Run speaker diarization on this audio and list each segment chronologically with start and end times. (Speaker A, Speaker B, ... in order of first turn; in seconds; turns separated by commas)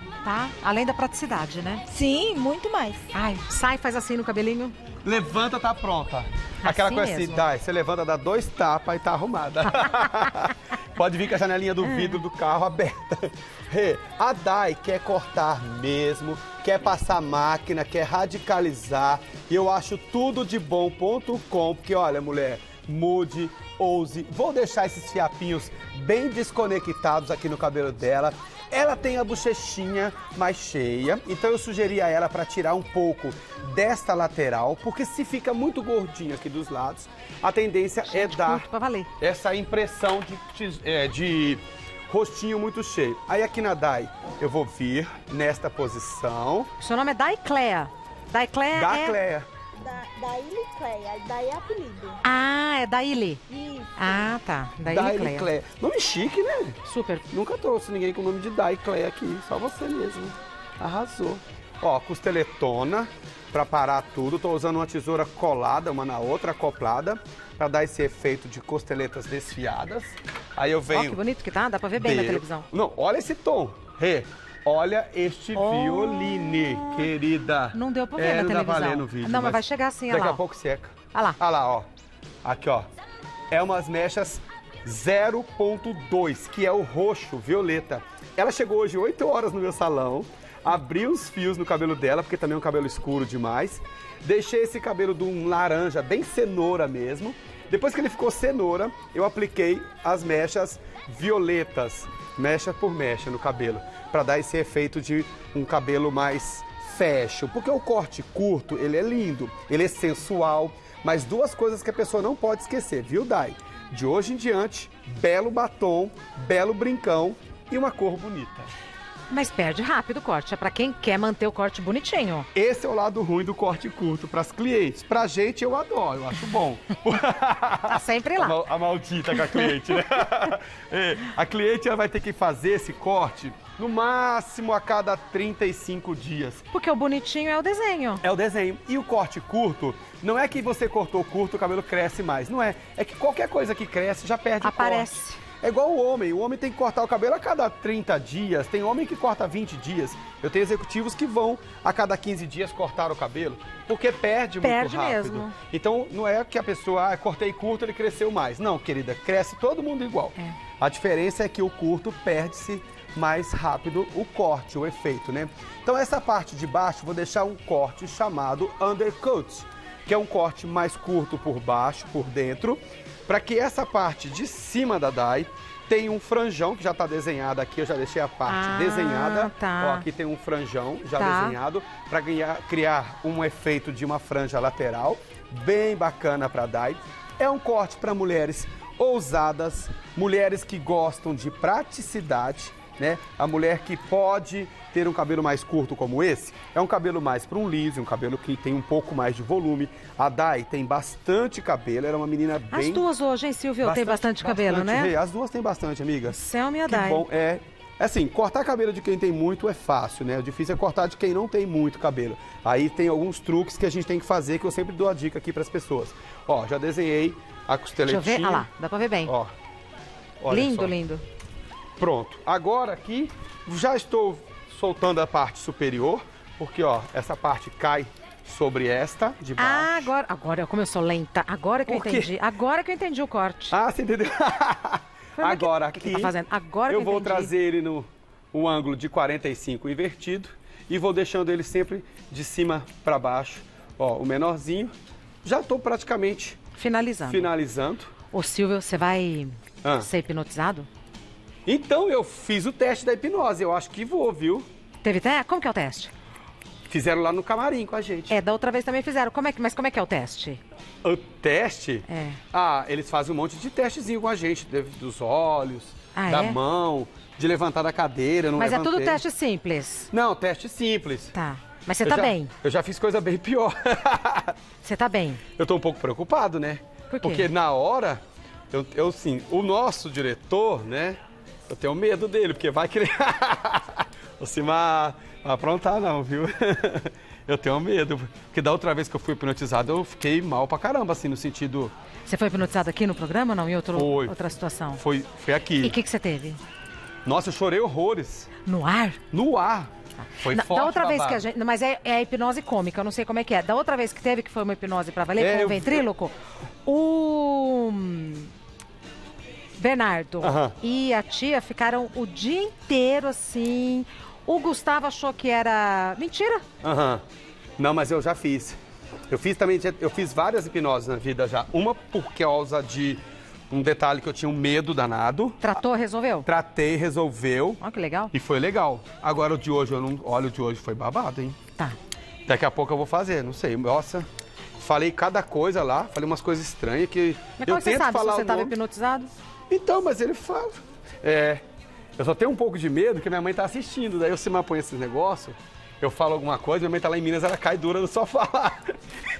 Speaker A: 0.2-1.8, Speaker B: 1.9-3.1, Speaker A: 3.1-4.7, Speaker C: 5.0-38.6, Speaker A: 6.6-7.5, Speaker A: 11.8-12.2, Speaker A: 38.1-39.1, Speaker C: 39.2-46.7, Speaker A: 46.8-49.2, Speaker C: 48.7-49.5, Speaker B: 49.8-52.2, Speaker A: 52.2-53.4, Speaker B: 53.5-54.2, Speaker A: 54.0-55.5, Speaker C: 54.9-56.8, Speaker A: 56.8-57.2, Speaker C: 57.3-71.2, Speaker A: 70.9-72.7, Speaker C: 72.0-81.8, Speaker A: 75.5-77.1, Speaker A: 77.7-80.4, Speaker A: 81.1-81.4, Speaker C: 82.4-82.9, Speaker C: 83.5-118.7, Speaker A: 119.3-122.5, Speaker C: 122.5-136.6, Speaker A: 127.9-128.6, Speaker A: 129.4-130.2, Speaker A: 136.7-138.2, Speaker C: 138.2-203.0, Speaker A: 144.6-145.4, Speaker A: 154.6-155.6, Speaker A: 178.5-180.1, Speaker A: 181.2-181.6, Speaker A: 202.7-205.1, Speaker C: 203.8-218.7, Speaker A: 206.3-207.2, Speaker A: 218.0-219.3, Speaker C: 220.4-220.9, Speaker A: 220.5-221.2, Speaker C: 222.0-230.1, Speaker A: 229.6-233.8, Speaker C: 231.9-232.3, Speaker C: 233.7-236.3, Speaker A: 235.4-237.5, Speaker C: 236.9-244.9, Speaker C: 245.4-246.6, Speaker A: 246.8-247.5, Speaker C: 247.3-248.1, Speaker A: 248.3-250.9, Speaker C: 249.8-250.1, Speaker C: 251.7-254.7, Speaker A: 255.0-256.1, Speaker C: 256.9-258.3, Speaker A: 258.3-260.6, Speaker C: 261.0-269.2, Speaker A: 262.1-262.4, Speaker A: 266.1-266.6, Speaker A: 268.6-270.1, Speaker C: 270.1-271.3, Speaker A: 271.3-272.5, Speaker C: 272.0-274.5, Speaker A: 274.8-275.4, Speaker C: 275.6-278.2, Speaker A: 277.1-277.5, Speaker C: 278.7-291.9, Speaker A: 292.3-295.0, Speaker C: 293.9-294.3, Speaker C: 295.0-295.9, Speaker A: 295.8-296.6, Speaker C: 297.2-298.5, Speaker A: 298.6-299.2, Speaker C: 299.3-299.9, Speaker A: 300.3-308.5, Speaker C: 300.4-301.4, Speaker C: 305.4-306.1, Speaker A: 309.8-316.6, Speaker C: 310.4-310.8, Speaker C: 316.8-317.2, Speaker C: 317.8-318.8, Speaker C: 319.3-325.7, Speaker A: 325.6-326.5, Speaker C: 326.4-327.8, Speaker A: 327.8-328.3, Speaker C: 328.3-331.6, Speaker C: 332.5-334.3, Speaker C: 334.8-338.7, Speaker A: 337.6-339.3, Speaker C: 339.7-341.6, Speaker C: 342.2-349.0